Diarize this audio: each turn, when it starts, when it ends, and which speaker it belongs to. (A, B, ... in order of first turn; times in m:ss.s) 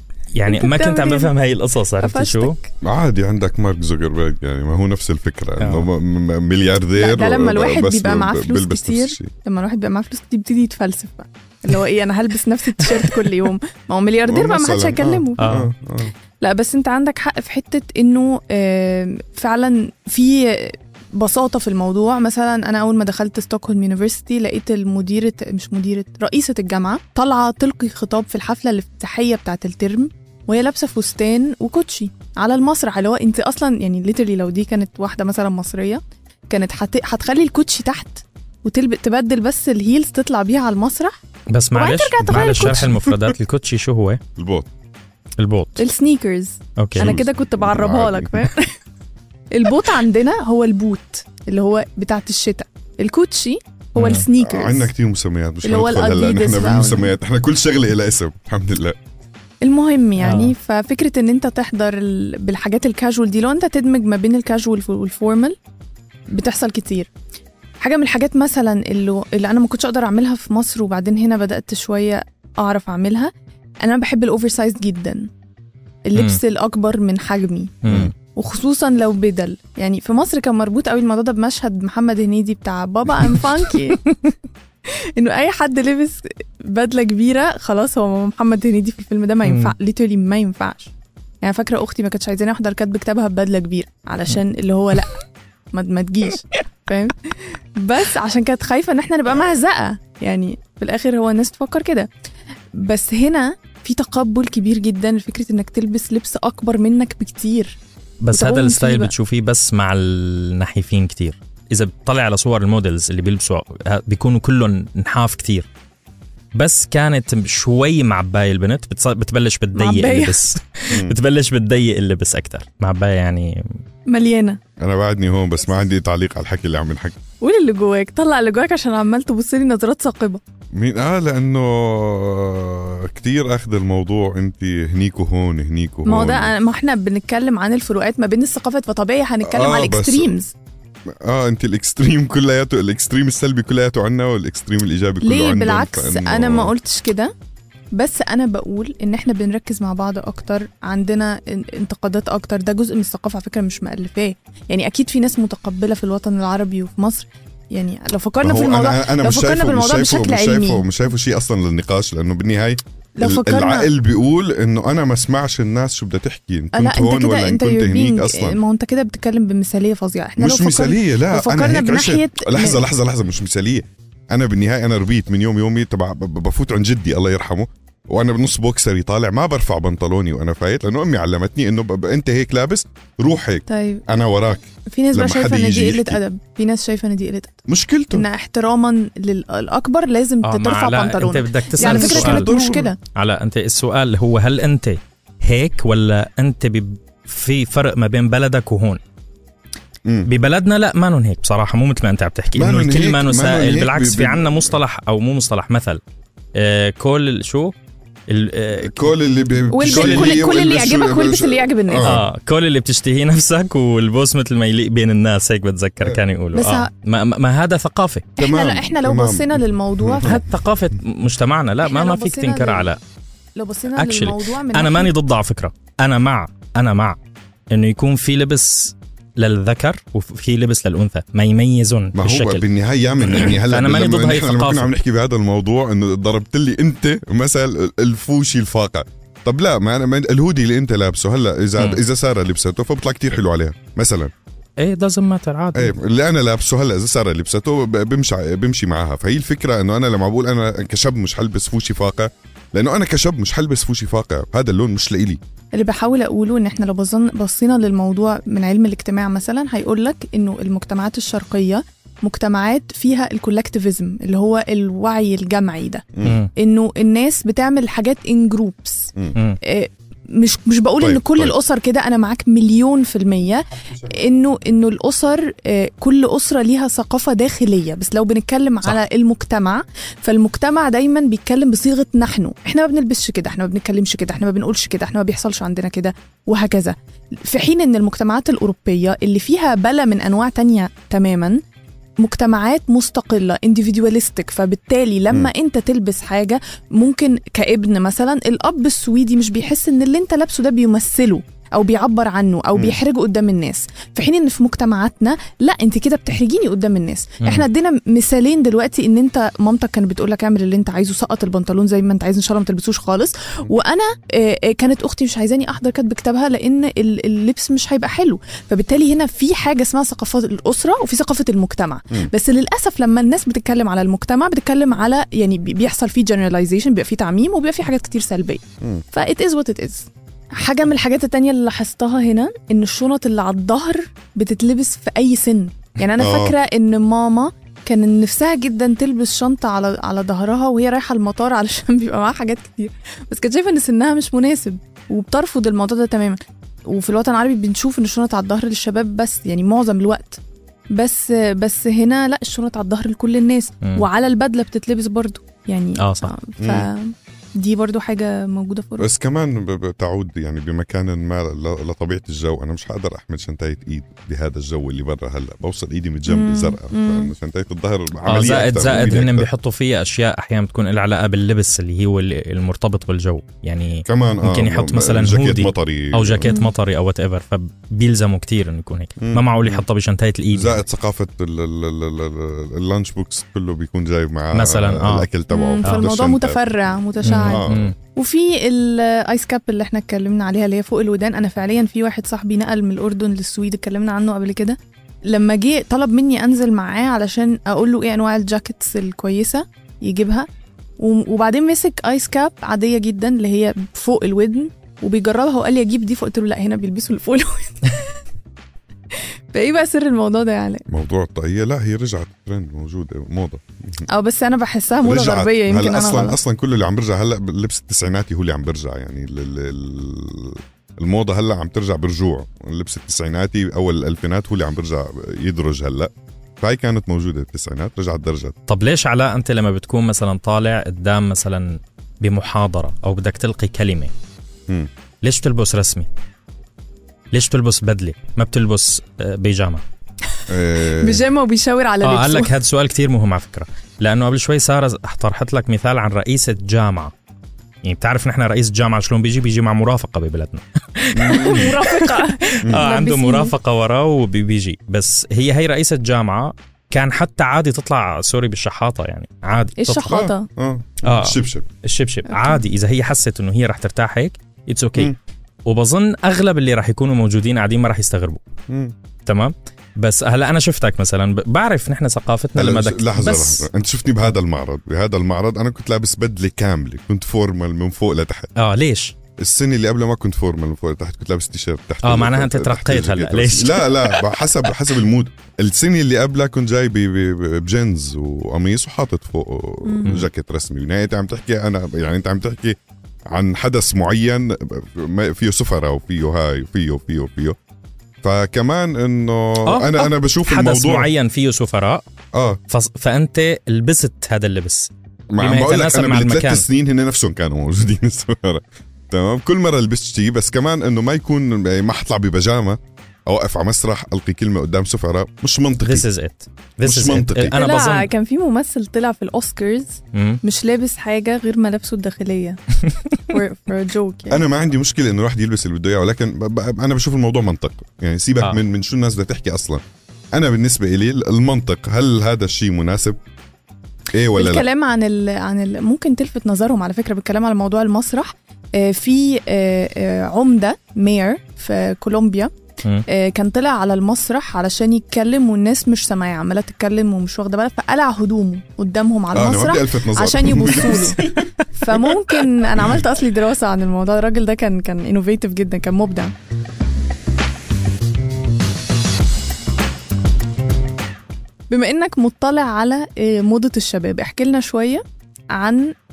0:00.3-0:02.6 A
0:00.4-0:01.3 B
0:02.0-0:02.7 B
0:02.8-0:09.3 C
0:05.6-0:05.9 A
0:07.0-0:15.5 B
0:14.3-0:16.1 C
0:15.4-0:15.7 A
0:16.4-0:41.2 B
0:41.5-0:44.2 A
0:41.7-0:43.0 B
0:42.2-0:43.3 C
0:44.4-0:44.7 C
0:45.4-0:45.8 A
0:45.8-0:48.7 B
0:46.8-0:47.2 A
0:47.0-0:48.5 C
0:49.5-0:54.9 B
0:54.0-0:54.2 A
0:54.4-0:59.0 C
0:55.6-0:57.1 B
0:59.6-1:05.6 B
1:00.2-1:00.5 A
1:06.3-1:07.1 B
1:07.8-1:15.3 B
1:16.1-1:24.0 B
1:17.8-1:18.1 A
1:17.9-1:18.1 C
1:24.9-1:42.1 B
1:29.4-1:29.7 A
1:42.7-1:47.8 B
1:48.2-1:55.7 A
1:48.3-1:49.1 B
1:56.5-2:03.8 A
1:59.7-2:00.4 B
2:00.9-2:01.2 C
2:04.1-2:04.6 B
2:04.8-2:07.2 C
2:07.4-2:10.4 B
2:10.7-2:16.5 C
2:16.0-2:20.5 B
2:19.4-2:20.3 C
2:21.1-2:26.7 C
2:25.2-2:27.3 B
2:27.9-2:40.8 B
2:38.4-2:48.6 C
2:43.2-2:43.9 B
2:46.7-2:52.8 B
2:50.4-3:06.2 C
3:03.7-3:04.0 B
3:04.9-3:07.6 B
3:07.7-3:08.2 C
3:08.1-3:13.0 B
3:10.4-3:12.5 A
3:11.8-3:12.9 C
3:13.1-3:19.0 A
3:20.3-3:26.0 A
3:22.5-3:24.8 C
3:26.5-3:27.7 A
3:28.3-3:29.1 A
3:28.8-3:32.3 C
3:29.7-3:32.1 B
3:29.8-3:30.4 A
3:32.0-3:38.3 A
3:36.5-3:36.9 B
3:38.4-3:40.4 B
3:38.4-3:40.4 C
3:40.2-3:43.0 A
3:41.8-3:42.9 B
3:43.6-3:45.1 B
3:43.9-3:47.2 A
3:47.7-3:52.6 A
3:52.1-4:04.3 C
3:53.2-3:54.9 A
4:04.8-4:05.9 A
4:05.7-4:15.4 C
4:15.7-4:26.0 B
4:26.1-4:26.4 C
4:26.2-4:26.5 A
4:26.6-4:29.1 B
4:29.6-4:51.6 B
4:31.0-4:31.5 C
4:33.9-4:34.2 C
4:52.2-5:50.4 B
5:36.2-5:36.5 C
5:50.9-5:59.1 B
5:56.0-5:56.3 A
5:56.6-5:56.9 C
5:59.0-6:09.5 C
6:06.3-6:07.3 B
6:08.2-6:20.8 A
6:14.0-6:16.5 C
6:16.4-6:16.7 B
6:19.2-6:19.8 C
6:20.5-6:26.7 C
6:24.5-6:25.3 A
6:25.5-6:40.5 B
6:27.2-6:27.9 C
6:27.2-6:27.9 A
6:41.0-6:48.1 B
6:49.2-6:50.8 B
6:50.9-6:54.0 C
6:54.1-6:56.4 B
6:55.0-7:08.6 C
7:08.7-7:14.1 A
7:15.2-7:16.1 A
7:17.3-7:19.8 A
7:20.5-7:21.2 C
7:20.8-7:22.5 B
7:22.0-7:27.1 A
7:27.8-7:40.2 A
7:31.0-7:33.5 B
7:31.1-7:31.7 C
7:39.8-7:40.5 B
7:40.0-7:41.6 C
7:41.0-7:45.1 A
7:42.3-7:42.6 B
7:45.6-7:48.4 A
7:48.7-7:48.9 C
7:49.2-7:53.6 A
7:52.5-7:58.5 C
7:58.6-7:59.1 A
7:59.4-8:12.8 C
8:02.0-8:04.3 A
8:13.3-8:17.6 C
8:18.2-8:21.1 C
8:19.6-8:22.0 A
8:22.3-8:22.6 C
8:22.7-8:26.6 A
8:25.3-8:36.0 C
8:35.8-8:38.1 A
8:36.8-8:37.6 C
8:37.5-8:42.6 B
8:40.1-8:40.4 A
8:43.3-8:44.4 B
8:44.3-8:49.8 C
8:50.3-8:53.2 C
8:54.1-8:54.6 C
8:54.3-9:02.5 B
9:03.1-9:16.3 B
9:09.3-9:11.5 C
9:21.7-9:25.9 B